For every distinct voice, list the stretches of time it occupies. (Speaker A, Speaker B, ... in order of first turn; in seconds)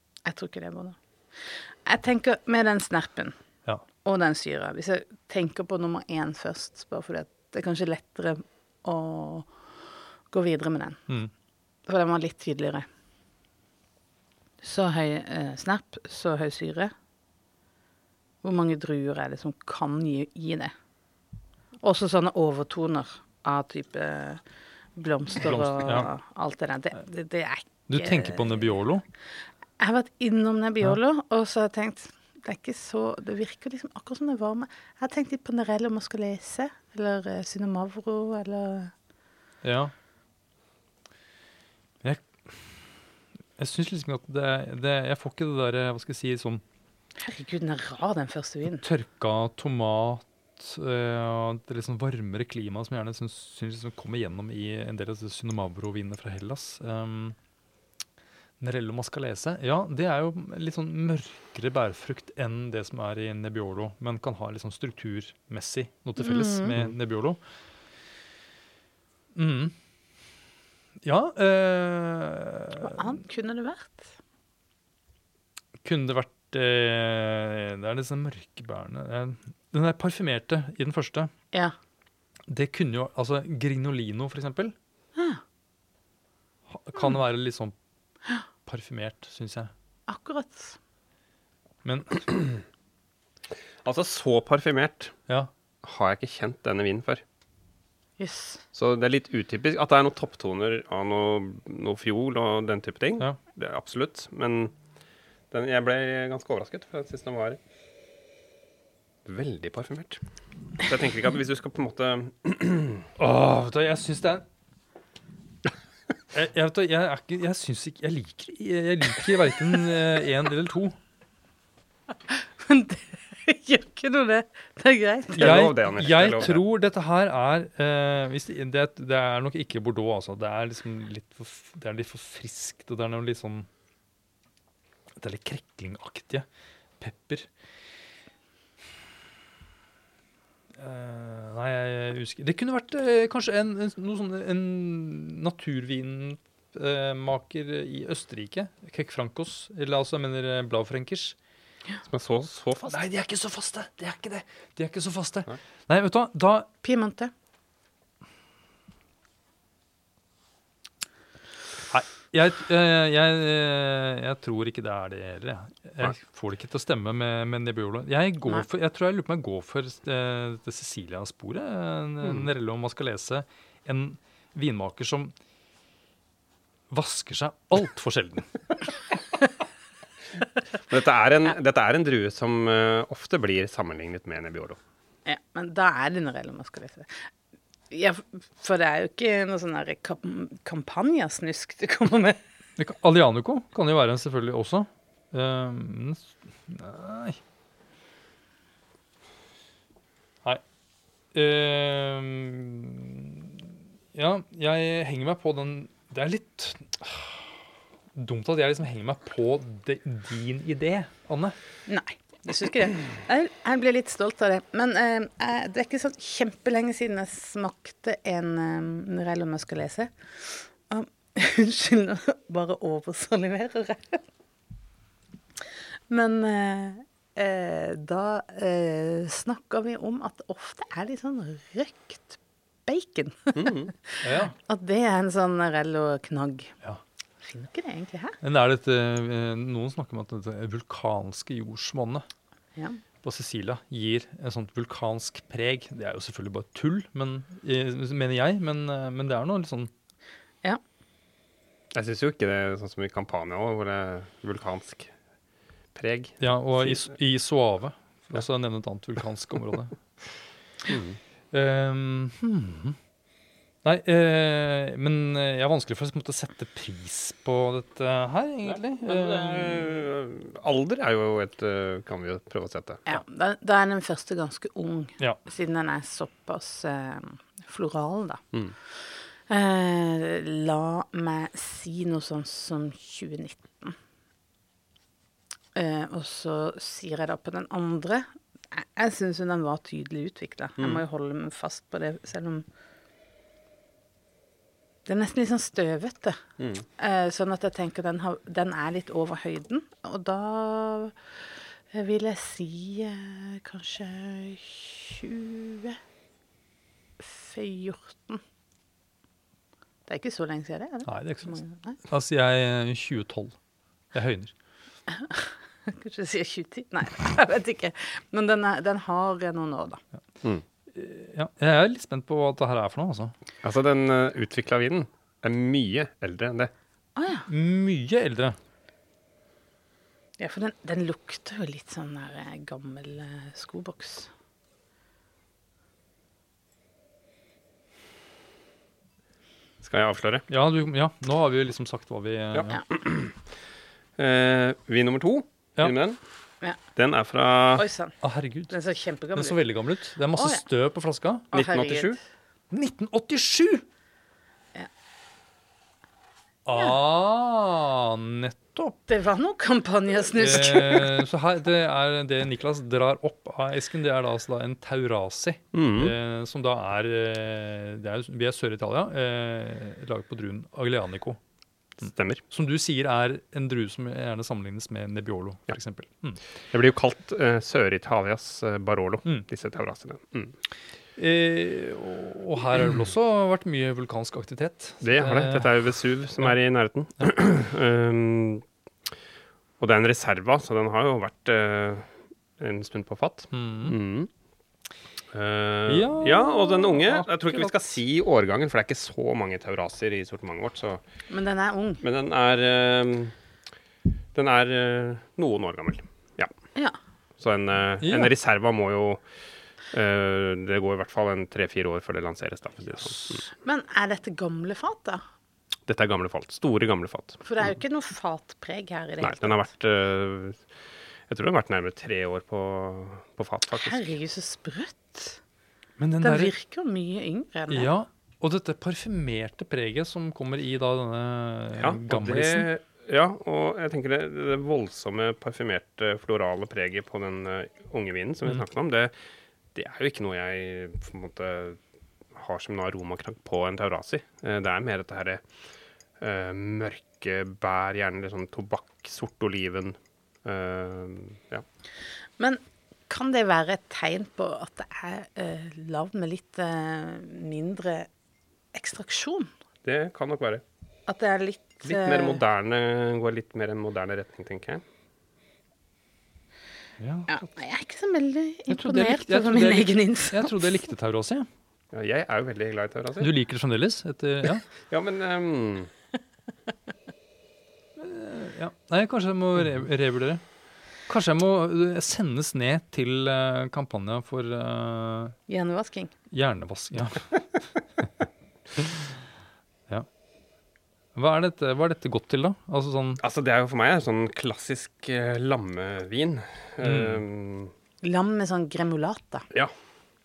Speaker A: 0.3-3.4, 4.0-11.1, 11.9-12.9, 14.6-16.9, 18.4-20.7, 21.8-24.4, 25.0-28.6, 29.8-38.9, 47.2-48.8, 66.2-66.8, 72.8-74.2, 85.2-85.4, 90.1-90.8, 98.2-98.6, 122.3-125.5, 156.8-157.3, 185.3-187.3, 187.9-192.4, 211.9-224.2, 226.1-236.7, 237.4-238.4, 242.8-243.0, 273.1-284.0, 285.8-292.6, 295.1-296.4, 297.0-301.4, 301.9-306.0, 307.2-308.4, 310.1-312.0, 315.1-320.0, 327.2-327.5, 330.4-334.3, 347.8-348.2, 348.7-349.6, 350.4-350.6, 351.5-352.2, 359.1-361.1, 401.3-402.0, 413.6-415.2, 417.4-419.7, 423.7-425.4, 426.2-427.9, 452.4-458.1, 458.7-459.5, 461.1-462.4, 467.3-470.7, 485.5-486.1, 498.0-499.5
Speaker B: 25.4-26.1, 27.9-29.0, 39.6-39.9, 42.0-43.0, 43.6-46.6, 48.8-57.4, 58.6-67.4, 69.3-69.7, 71.0-73.0, 75.8-81.3, 82.5-84.7, 86.7-87.7, 88.7-89.7, 91.8-92.2, 113.2-114.5, 116.3-121.0, 125.3-133.7, 135.2-136.5, 137.0-137.5, 140.8-151.4, 152.9-156.7, 161.9-175.3, 176.9-178.8, 192.8-197.4, 201.3-207.5, 208.2-211.6, 234.2-234.6, 238.4-242.2, 243.2-249.9, 256.4-259.9, 261.5-263.0, 263.8-269.9, 311.1-313.6, 314.1-314.5, 320.9-323.3, 327.5-328.6, 340.5-342.8, 348.2-351.5, 352.7-353.8, 356.7-359.0, 360.3-371.4, 372.5-376.4, 381.2-386.6, 393.5-394.0, 395.9-397.9, 408.0-408.3, 426.0-426.5, 427.7-432.7, 467.0-467.3, 468.7-471.5, 473.2-474.7, 478.0-480.4, 481.1-485.4, 486.3-489.1, 491.1-493.2, 496.8-497.2
Speaker C: 93.8-95.1, 95.8-97.2, 98.7-104.7, 105.5-107.6, 109.3-110.2, 110.8-113.0, 125.3-126.6, 152.1-153.0, 180.9-184.8, 233.6-233.9, 251.9-255.1, 255.9-257.1, 260.9-261.2, 268.7-273.1, 290.8-291.0, 296.6-296.9, 323.6-326.7, 339.8-340.4, 342.5-343.4, 344.2-346.2, 346.9-347.9, 351.5-352.2, 365.7-366.1, 372.0-372.4, 376.7-380.5, 385.0-388.6, 389.8-394.3, 395.3-401.0, 402.0-403.4, 404.3-406.5, 407.4-413.5, 415.9-417.6, 419.2-420.7, 421.3-424.1, 431.8-439.1, 439.8-441.8, 442.3-445.4, 446.2-451.6, 459.8-460.6, 461.8-464.8, 471.9-473.3, 474.9-475.9, 493.2-497.7